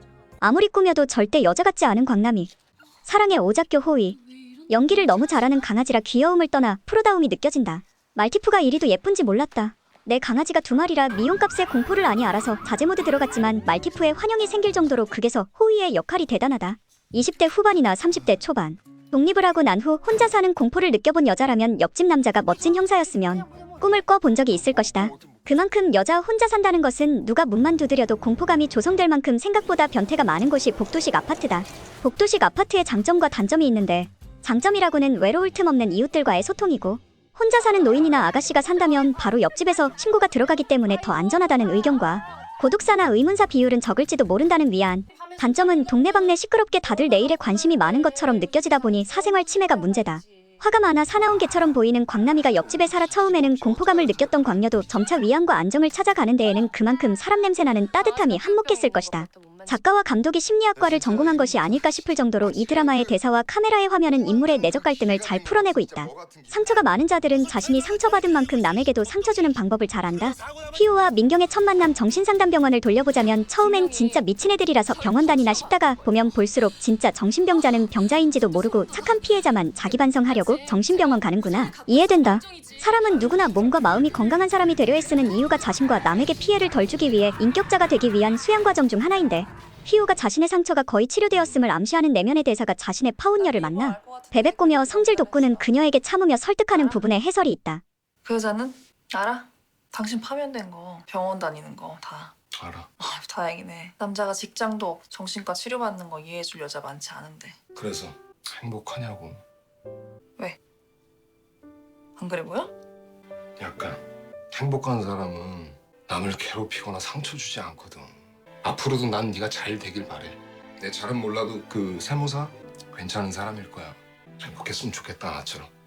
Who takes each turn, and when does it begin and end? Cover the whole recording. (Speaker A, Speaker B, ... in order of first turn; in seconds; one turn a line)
Speaker A: 0.4-2.5
Speaker A: 3.0-97.8
Speaker B: 93.4-95.6
Speaker B: 98.2-102.3
Speaker C: 102.5-102.9
Speaker B: 103.0-107.6
Speaker C: 107.7-109.4
Speaker B: 112.2-112.7
Speaker C: 113.6-125.7